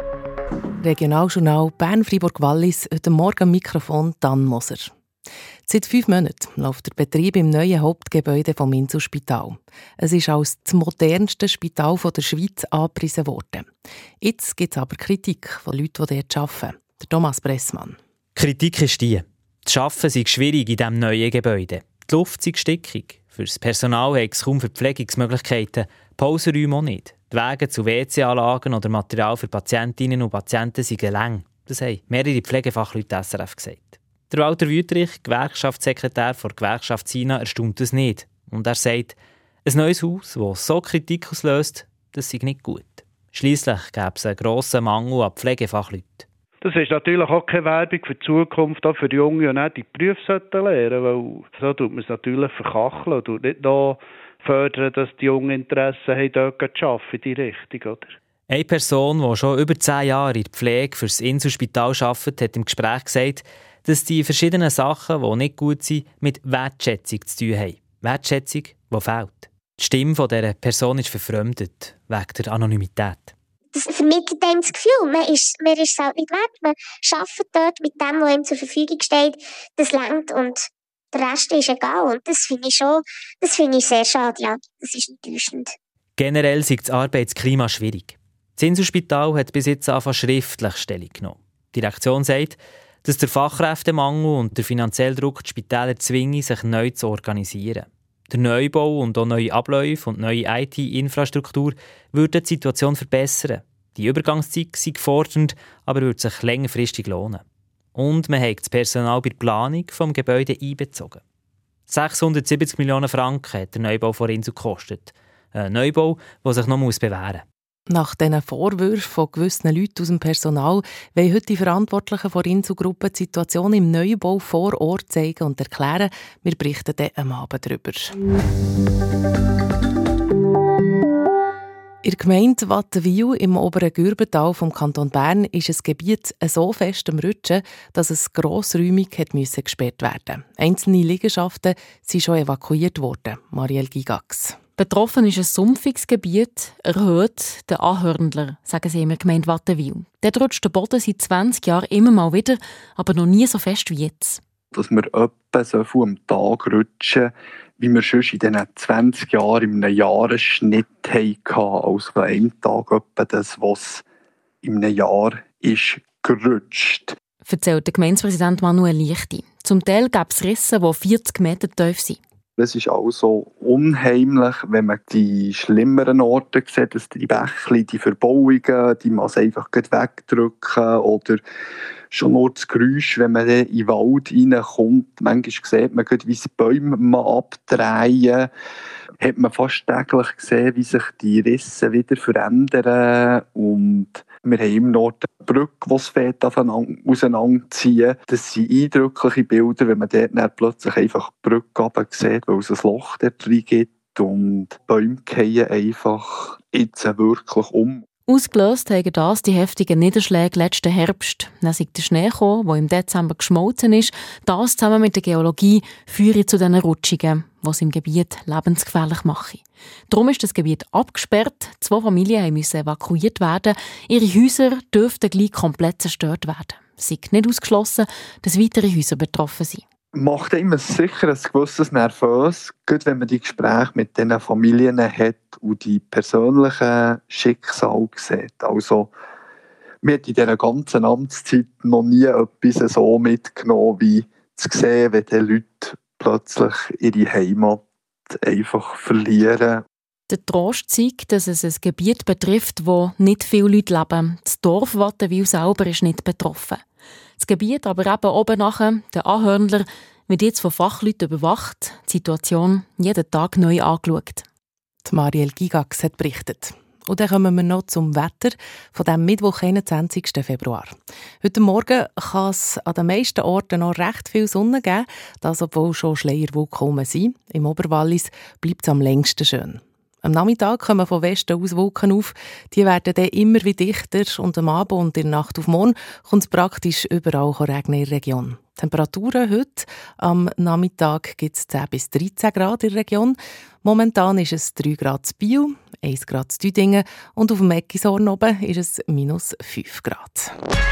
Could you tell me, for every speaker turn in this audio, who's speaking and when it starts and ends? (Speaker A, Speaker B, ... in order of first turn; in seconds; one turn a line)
Speaker A: 0.8-4.9
Speaker A: 5.7-13.7
Speaker A: 14.2-18.0
Speaker B: 18.3-46.2
Speaker C: 46.6-58.1
Speaker B: 58.5-73.3
Speaker D: 73.7-85.7
Speaker B: 86.2-111.2
Speaker B: 111.9-117.4
Speaker A: 117.9-128.2
Speaker A: 132.0-144.6
Speaker E: 144.8-154.4
Speaker F: 154.7-164.0
Speaker F: 164.6-167.1
Speaker E: 167.4-172.2
Speaker F: 172.6-181.4
Speaker F: 182.1-188.5
Speaker F: 189.2-208.0
Speaker E: 208.3-229.8
Speaker F: 230.1-239.1
Speaker F: 240.0-249.8
Speaker E: 250.3-256.8
Speaker E: 257.4-264.4
Speaker A: 265.1-300.5